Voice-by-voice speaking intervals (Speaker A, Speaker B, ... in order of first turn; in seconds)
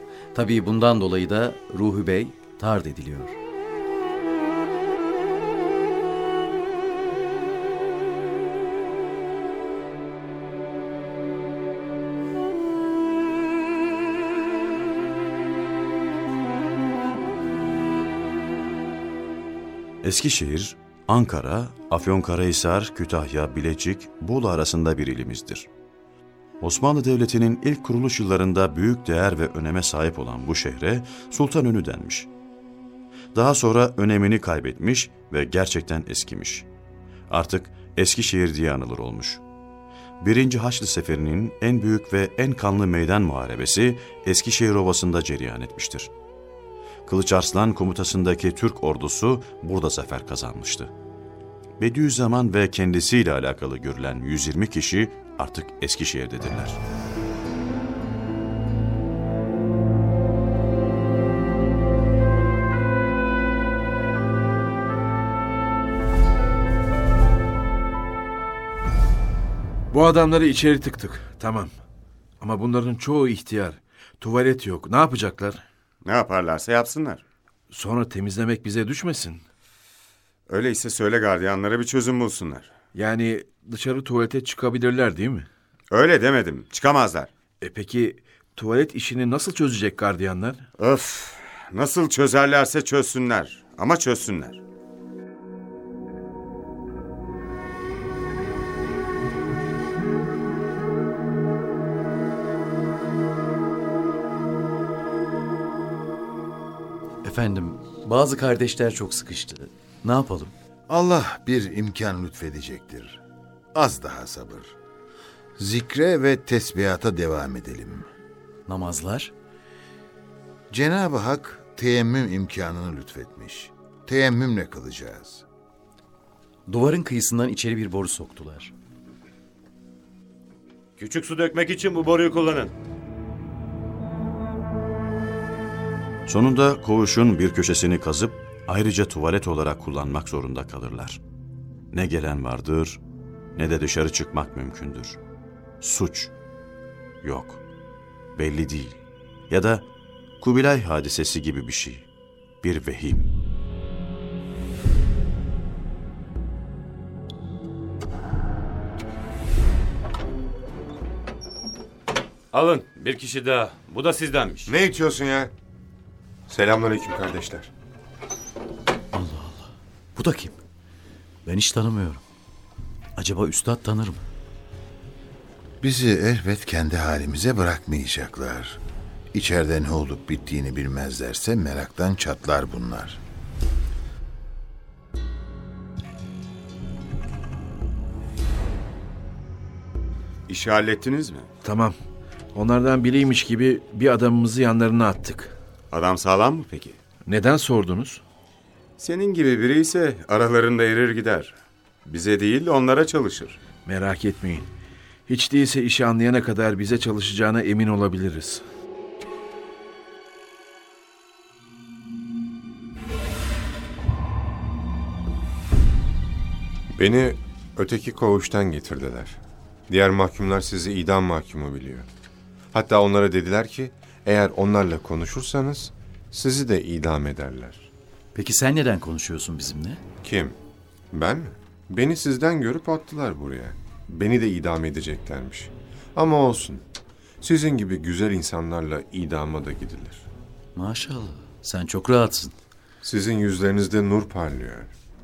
Speaker A: 0.3-3.4, 107.2-110.5, 118.7-119.3, 126.7-128.7, 169.1-170.6, 171.4-172.2, 173.2-174.2, 228.3-230.0, 240.8-242.6
Speaker B: 20.0-25.7, 26.6-32.3, 33.3-36.7, 37.3-39.4, 40.2-46.1, 47.0-50.9, 51.8-56.8, 136.3-141.2, 141.9-143.0, 143.6-145.2, 145.8-146.3, 147.2-147.6, 148.3-149.8, 150.4-152.1, 152.6-153.3
Speaker C: 69.9-71.7, 72.4-75.6, 77.7-79.4, 82.9-85.5, 87.6-90.6, 191.6-191.9, 192.5-195.6, 197.2-198.2, 203.8-204.7, 205.3-208.6
Speaker D: 76.0-77.2, 80.5-82.7, 85.9-87.3, 90.8-94.6, 190.5-191.5, 195.9-197.0, 199.0-203.6
Speaker E: 110.9-113.2, 113.7-114.8, 115.6-118.1, 120.7-125.4, 175.8-178.8, 179.3-183.2
Speaker F: 131.0-132.7, 162.5-164.7
Speaker G: 164.7-165.5, 166.5-167.7, 216.9-222.1, 222.7-227.9, 230.2-230.6, 231.1-236.8, 237.4-240.3, 243.0-244.9